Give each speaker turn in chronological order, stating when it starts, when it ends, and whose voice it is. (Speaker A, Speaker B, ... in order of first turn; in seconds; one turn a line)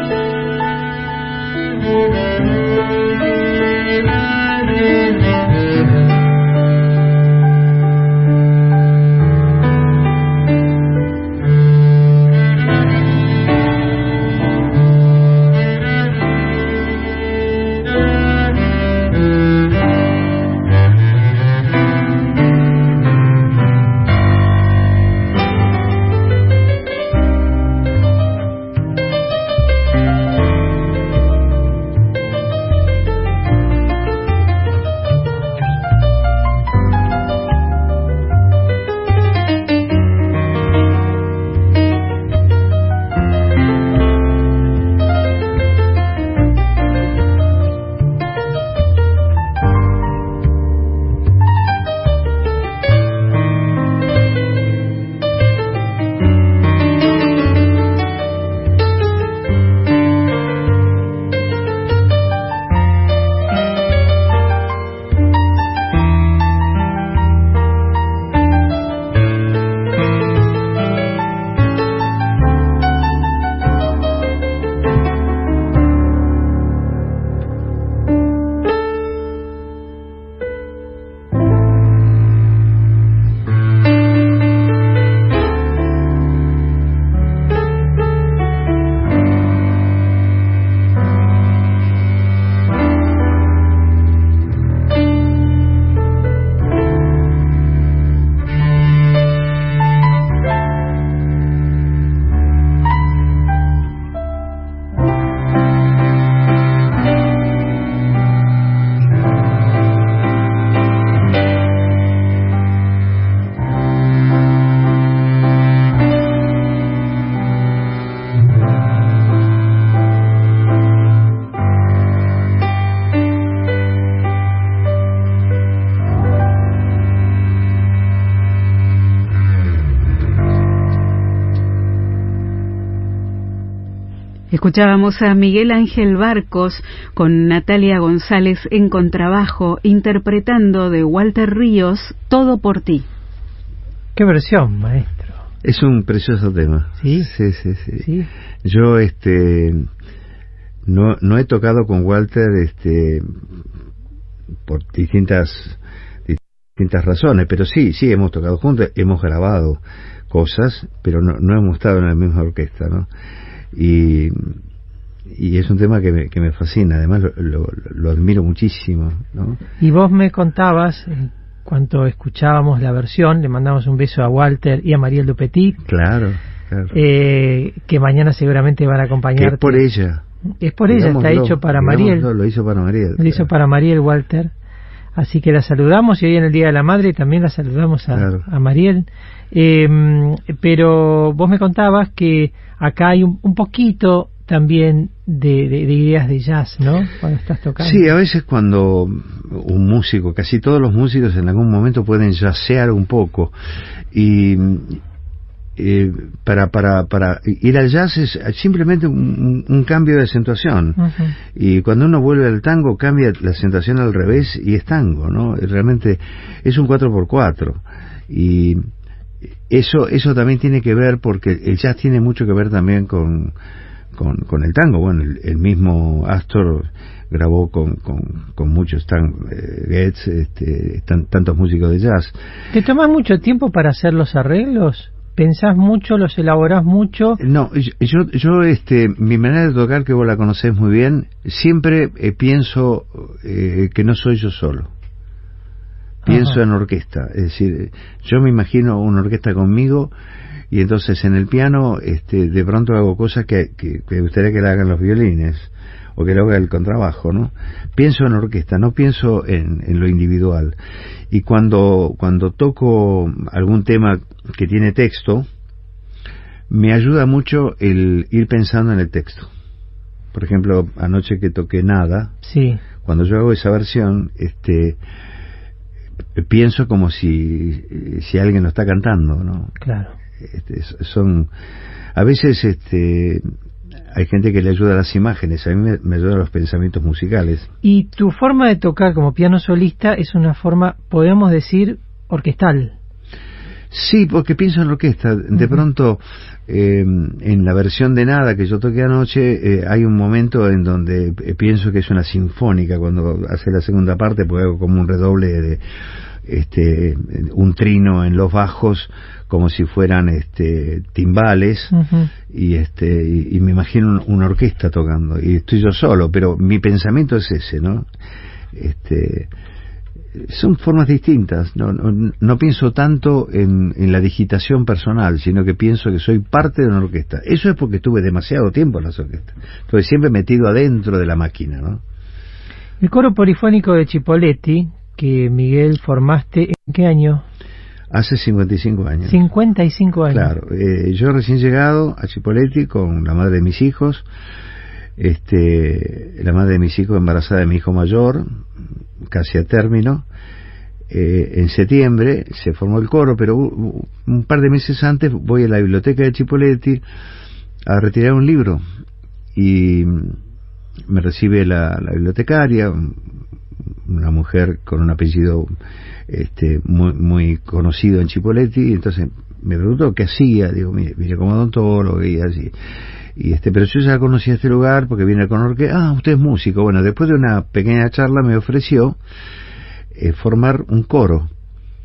Speaker A: 134.5-143.1
Speaker B: 144.2-145.4
Speaker C: 145.6-148.1
Speaker B: 147.0-147.3
Speaker B: 148.0-148.3
Speaker C: 148.6-149.9
Speaker C: 150.9-153.3
Speaker C: 154.7-163.1
Speaker C: 163.7-164.6
Speaker C: 165.3-169.6
Speaker B: 169.8-175.8
Speaker C: 175.8-176.9
Speaker B: 176.9-179.8
Speaker C: 179.4-180.2
Speaker B: 180.6-182.3
Speaker C: 180.9-183.5
Speaker B: 183.2-184.5
Speaker B: 185.2-198.1
Speaker C: 188.1-188.4
Speaker C: 197.8-203.5
Speaker C: 204.1-205.0
Speaker C: 205.8-211.0
Speaker B: 211.0-211.3
Speaker C: 211.6-218.9
Speaker C: 219.7-223.6
Speaker C: 224.1-232.3
Speaker B: 232.7-237.4
Speaker C: 237.4-244.9
Speaker B: 246.3-246.6
Speaker C: 246.3-250.1
Speaker C: 250.7-260.8
Speaker C: 261.3-265.5
Speaker C: 266.7-269.5
Speaker C: 270.3-272.3
Speaker B: 272.4-272.8
Speaker C: 273.0-275.0
Speaker C: 276.4-279.7
Speaker B: 279.8-280.1
Speaker C: 280.4-281.5
Speaker C: 282.1-283.4
Speaker C: 284.1-287.7
Speaker B: 287.8-292.9
Speaker C: 293.9-305.8
Speaker C: 306.4-311.9
Speaker B: 311.9-312.3
Speaker C: 312.5-318.1
Speaker C: 318.7-319.5
Speaker C: 320.4-332.0
Speaker B: 333.0-337.4
Speaker C: 338.1-339.4
Speaker B: 339.3-340.5
Speaker C: 340.3-344.3
Speaker C: 345.2-348.5
Speaker C: 349.3-350.3
Speaker C: 351.1-357.0
Speaker C: 357.9-358.8
Speaker C: 359.6-360.4
Speaker C: 361.1-363.2
Speaker C: 364.1-365.7
Speaker C: 366.3-372.8
Speaker C: 373.4-379.2
Speaker C: 380.1-381.5